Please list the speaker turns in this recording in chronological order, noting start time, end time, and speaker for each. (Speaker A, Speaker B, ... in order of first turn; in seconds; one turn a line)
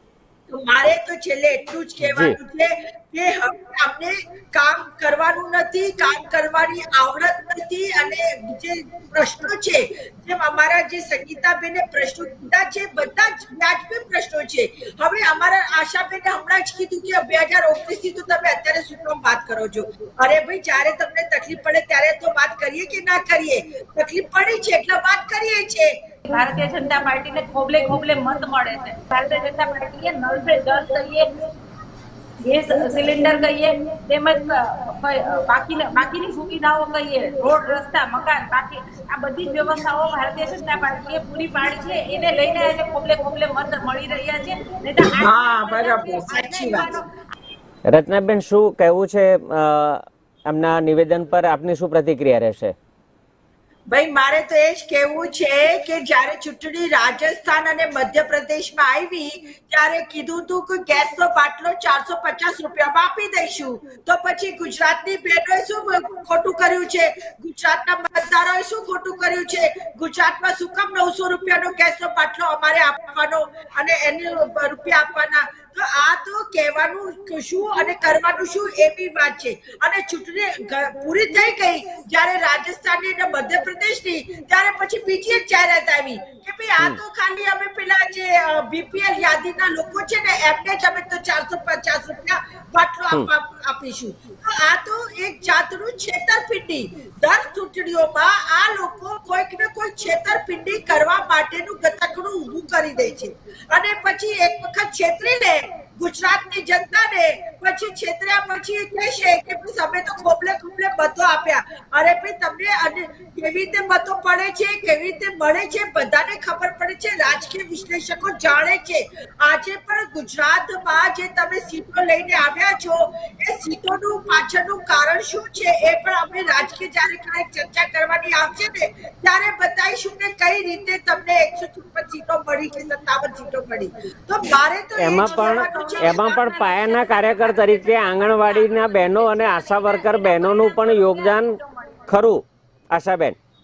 Speaker A: 0.5-26.0
Speaker B: 2.0-2.3
Speaker C: 26.3-31.4
Speaker C: 32.4-47.1
Speaker A: 45.2-47.0
Speaker B: 47.9-52.7
Speaker A: 53.9-136.4
Speaker B: 135.0-143.4
Speaker C: 135.2-142.1